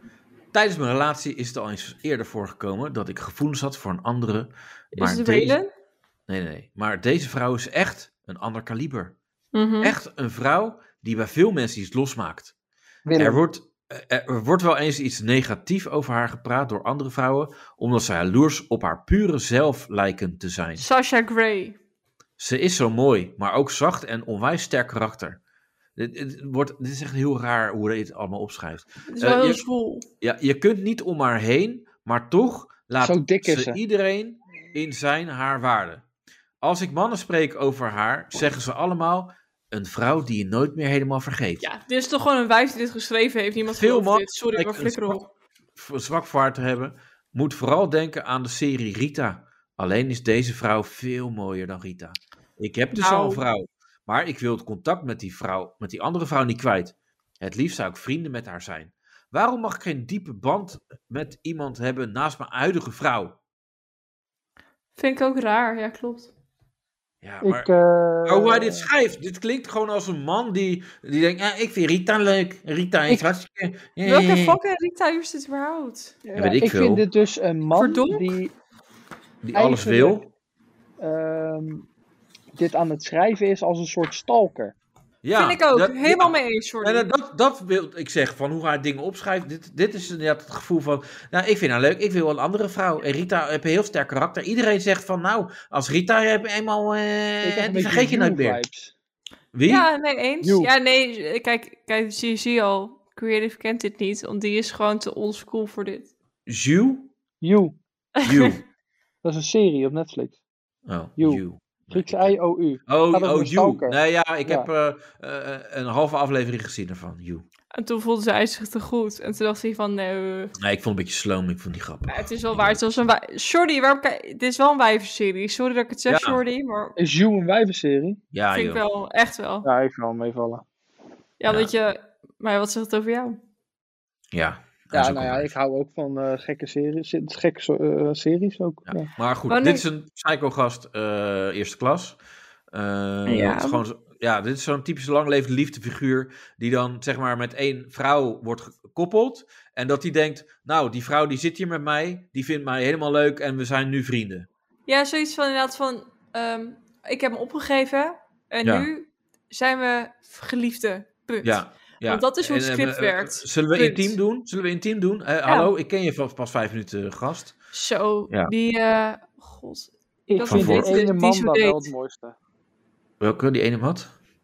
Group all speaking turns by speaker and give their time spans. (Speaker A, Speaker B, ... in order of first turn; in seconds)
Speaker A: 0.5-5.6, 6.3-9.1, 9.8-12.5, 13.2-20.9, 22.4-25.4, 25.9-29.6, 30.2-36.0, 36.6-41.7, 43.7-45.2, 45.8-63.4, 67.2-67.7, 68.2-74.6, 76.4-77.0, 79.4-80.3, 85.2-98.6, 99.5-99.9, 106.5-107.1, 108.2-108.6, 110.9-117.5, 120.6-122.8, 126.1-126.4, 128.3-128.8, 134.3-135.5, 138.9-142.2, 142.7-154.5, 161.4-167.6, 170.4-170.9, 173.2-174.1
Speaker B: 5.0-5.7, 9.5-9.9, 20.8-21.8, 29.1-30.1, 41.6-45.3, 53.0-53.4, 65.0-66.3, 74.0-76.2, 77.8-78.3, 85.4-87.1, 99.7-106.1, 108.2-108.5, 117.7-120.5, 122.1-127.0, 128.5-129.7, 131.4-133.4, 139.5-139.8, 143.3-143.8, 154.9-164.2, 167.7-171.9
Speaker C: 13.1-13.4, 33.0-33.8, 67.4-68.9, 73.1-73.3, 76.2-78.5, 79.5-80.2, 81.0-81.9, 82.6-84.7, 97.4-98.9, 100.4-100.7, 107.4-107.8, 109.2-110.4, 111.2-114.7, 127.0-128.2, 129.6-130.6, 134.9-139.1, 170.3-172.4